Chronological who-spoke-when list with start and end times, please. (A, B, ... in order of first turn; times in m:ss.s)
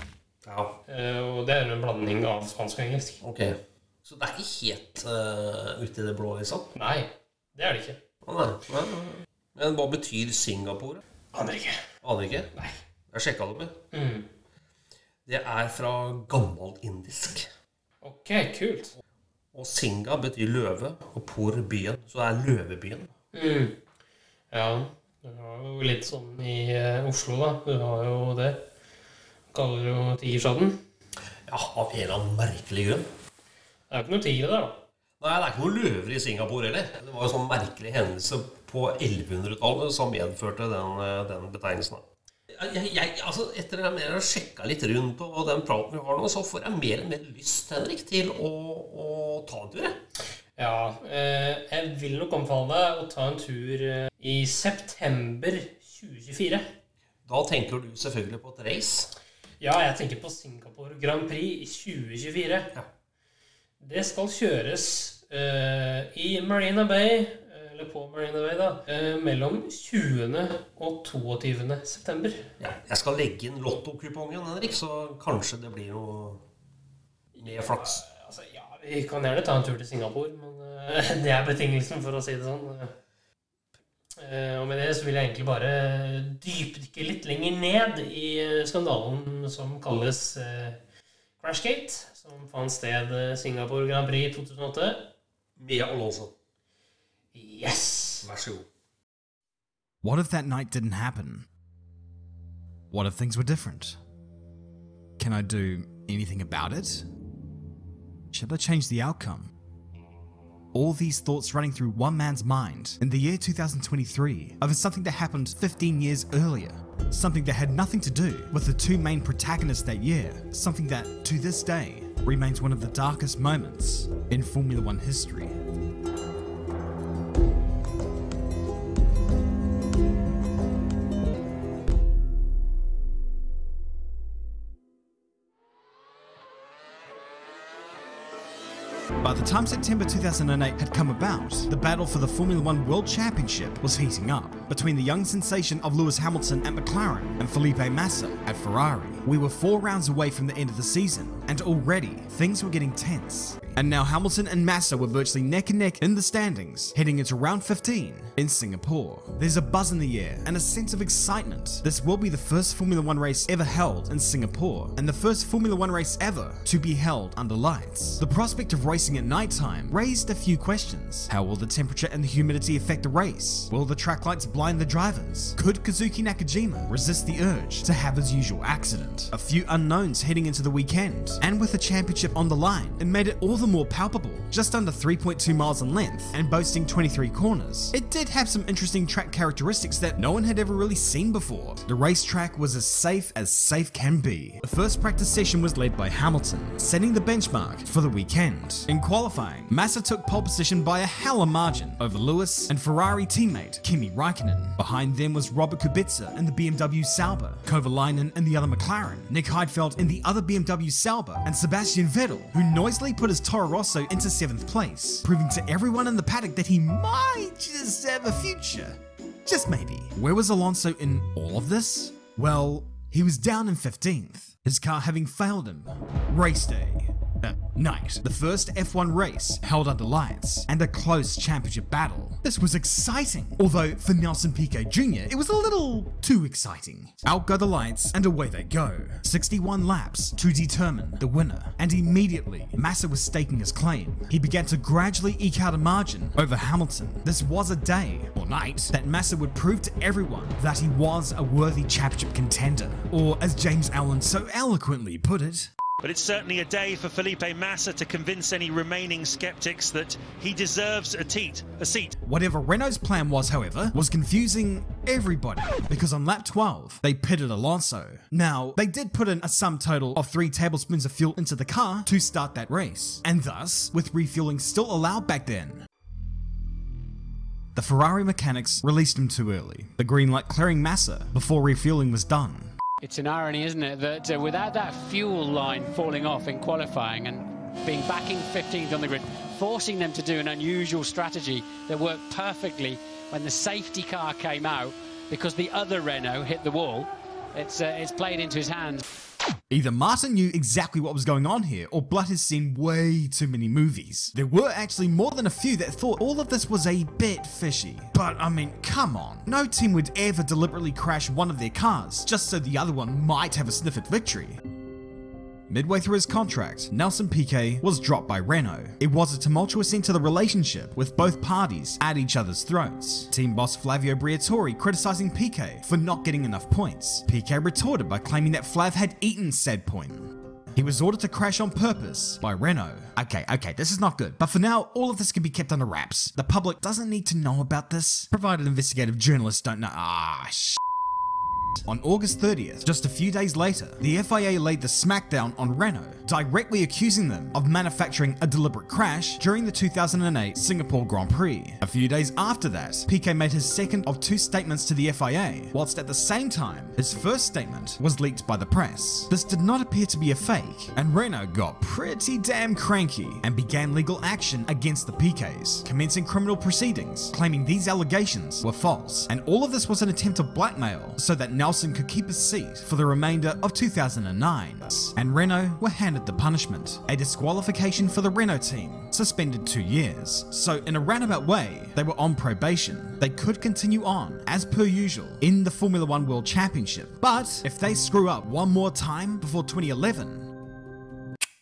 0:00.4-0:00.8 A
0:00.9-0:03.2 B
0:03.2-0:06.7 A
0:06.7-0:08.0 B
0:08.2-0:11.0 A
0:11.3-0:11.8 B
0:12.0-0:12.5 A
0:13.1-0:13.8 A
0:13.9-0:14.3 B
0:15.2-0:17.5 A
0:18.0-0:18.9 B
0:19.5-0:23.1 A
0:23.3-0:23.8 B
0:24.5-0:28.6 B
0:29.5-0:30.8 B
0:31.5-0:33.1 A
0:33.9-0:34.8 B
0:35.2-0:50.0 A
0:50.6-0:56.6 B
0:57.2-0:59.1 A
0:59.6-1:02.7 B
1:03.8-1:12.4 B
1:12.6-1:16.4 A
1:17.4-1:22.9 B
1:17.4-1:18.0 A
1:24.2-1:30.8 B
1:31.4-1:35.1 B
1:35.6-1:36.3 A
1:37.3-1:38.2 B
1:38.2-1:38.6 A
1:40.0-1:41.5 C
1:42.9-1:44.0 C
1:45.2-1:47.1 C
1:48.3-1:49.5 C
1:50.7-2:05.6 C
2:19.2-4:15.7 C
4:16.0-4:22.1 D
4:22.2-4:35.9 C
4:37.7-4:42.7 C
4:43.0-4:59.0 E
4:59.7-5:14.6 C
5:15.7-5:40.8 C
5:41.8-6:30.6 C